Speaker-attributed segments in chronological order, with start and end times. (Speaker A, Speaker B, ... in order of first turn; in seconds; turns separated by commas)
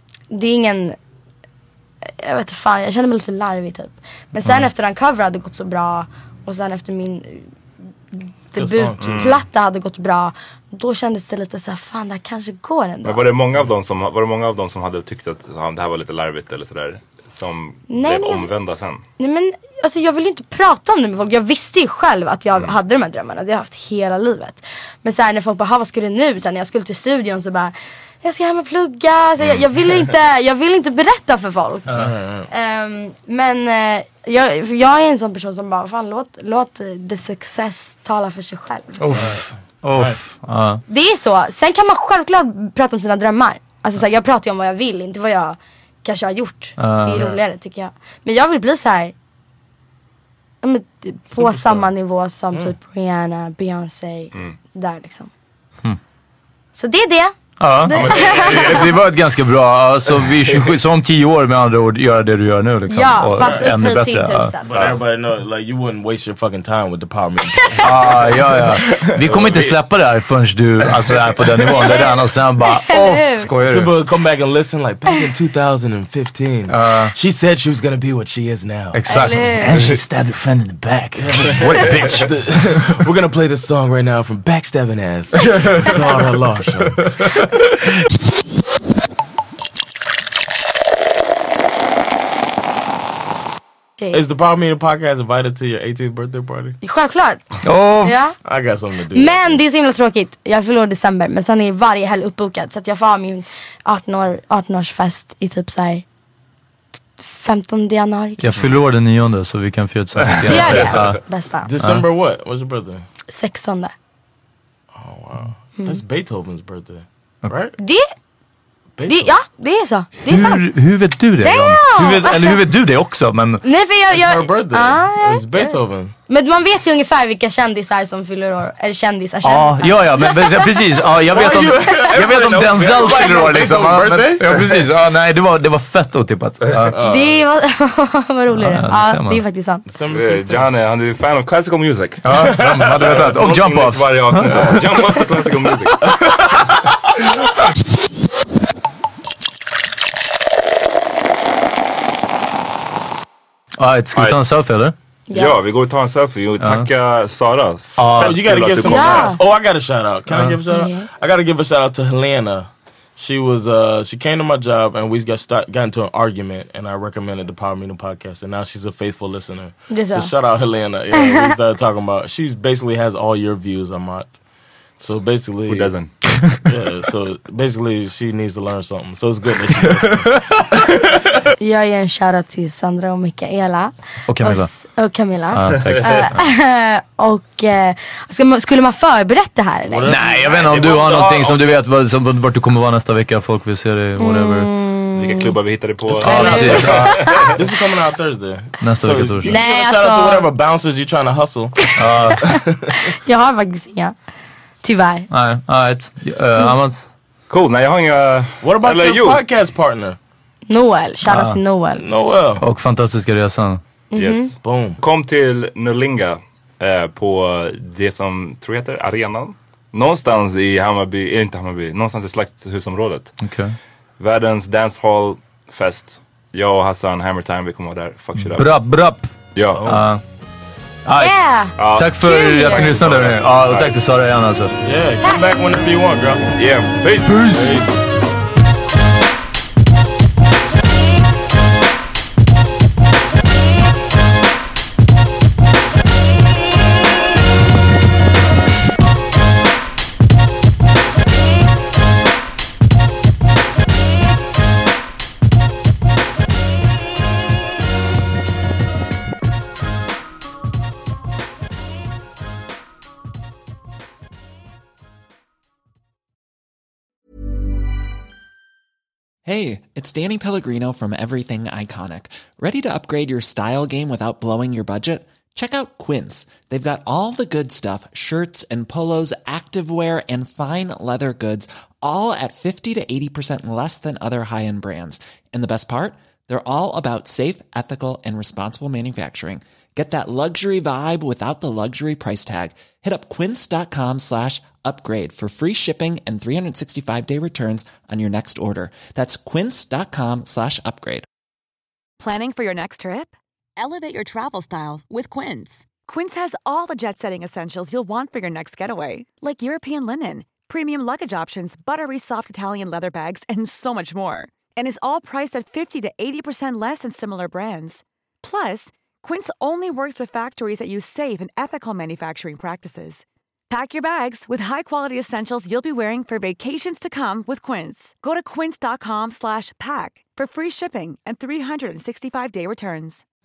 Speaker A: 0.3-1.0, Speaker A: 2.2-7.5, Speaker A: 8.1-13.2, Speaker B: 8.6-9.2, Speaker C: 9.0-9.4, Speaker C: 13.0-19.0, Speaker A: 17.9-18.5, Speaker A: 19.2-39.0, Speaker B: 31.9-32.5, Speaker D: 39.0-40.8, Speaker A: 40.9-49.1, Speaker D: 46.8-47.3, Speaker B: 47.1-47.4, Speaker A: 50.6-55.3, Speaker B: 51.4-51.9, Speaker A: 56.8-59.0, Speaker D: 57.6-64.5, Speaker C: 57.9-59.0, Speaker C: 60.4-60.8, Speaker A: 62.9-64.7, Speaker B: 63.4-63.7, Speaker B: 64.7-69.7, Speaker C: 64.7-65.0, Speaker D: 67.8-73.9, Speaker B: 71.5-71.8, Speaker A: 71.8-73.5, Speaker B: 73.7-79.4, Speaker D: 76.7-77.1, Speaker D: 78.9-82.3, Speaker A: 79.1-79.8, Speaker B: 81.2-87.5, Speaker A: 81.7-82.0, Speaker B: 94.1-96.8, Speaker A: 96.8-97.4, Speaker D: 97.6-98.2, Speaker A: 98.0-98.4, Speaker B: 98.5-99.6, Speaker A: 99.1-106.0, Speaker A: 107.2-108.6, Speaker D: 108.4-111.2, Speaker C: 110.4-110.9, Speaker A: 110.5-111.7, Speaker B: 111.6-113.0, Speaker A: 113.3-113.9, Speaker B: 114.9-117.8, Speaker A: 117.8-118.1, Speaker B: 119.0-119.3, Speaker A: 119.1-120.6, Speaker D: 120.3-123.6, Speaker A: 121.4-122.6, Speaker A: 123.6-130.9, Speaker B: 124.1-126.1, Speaker D: 129.4-137.0, Speaker B: 131.3-134.7, Speaker A: 131.8-132.1, Speaker C: 132.2-133.5, Speaker B: 136.9-137.4, Speaker A: 137.1-139.8, Speaker D: 138.5-139.4, Speaker B: 139.9-140.7, Speaker C: 140.1-146.2, Speaker D: 142.2-144.8, Speaker B: 142.4-143.2, Speaker B: 144.5-144.9, Speaker B: 146.0-146.9, Speaker D: 153.8-154.9, Speaker C: 154.1-154.4, Speaker A: 155.3-155.6, Speaker C: 155.3-159.4, Speaker D: 156.6-156.9, Speaker D: 158.0-158.4, Speaker B: 158.2-174.4, Speaker A: 158.8-159.4, Speaker D: 160.3-160.6, Speaker A: 160.7-161.1, Speaker A: 169.9-170.3, Speaker A: 171.1-171.6, Speaker B: 175.0-175.9, Speaker C: 175.2-176.1, Speaker B: 176.7-181.3, Speaker D: 179.9-180.8, Speaker A: 181.6-190.2, Speaker D: 184.3-184.7, Speaker D: 185.5-186.4, Speaker C: 185.7-186.3, Speaker B: 189.9-190.9, Speaker D: 190.1-194.7, Speaker C: 190.3-191.8, Speaker A: 194.2-195.6, Speaker C: 195.2-197.5, Speaker B: 196.1-201.8, Speaker D: 196.2-197.2, Speaker A: 196.2-197.6, Speaker D: 198.8-199.6, Speaker A: 199.4-200.5, Speaker A: 201.8-202.6, Speaker D: 202.0-202.5, Speaker B: 202.4-203.0, Speaker A: 203.2-204.1, Speaker A: 204.8-205.3, Speaker D: 205.3-207.1, Speaker C: 207.5-209.4, Speaker B: 208.6-210.2, Speaker A: 210.7-212.0, Speaker D: 211.2-211.6, Speaker B: 212.0-212.7, Speaker D: 212.6-213.8, Speaker A: 214.1-214.5, Speaker C: 214.2-223.3, Speaker B: 214.6-215.0, Speaker D: 223.4-223.8, Speaker C: 224.2-228.9, Speaker D: 228.4-230.2, Speaker C: 229.6-230.0, Speaker D: 231.1-234.8, Speaker A: 231.2-233.0, Speaker C: 231.8-233.9, Speaker B: 234.8-236.6, Speaker A: 235.2-235.5, Speaker C: 236.6-237.6, Speaker D: 237.3-237.8, Speaker B: 237.5-238.0, Speaker E: 269.5-301.3, Speaker F: 302.2-333.2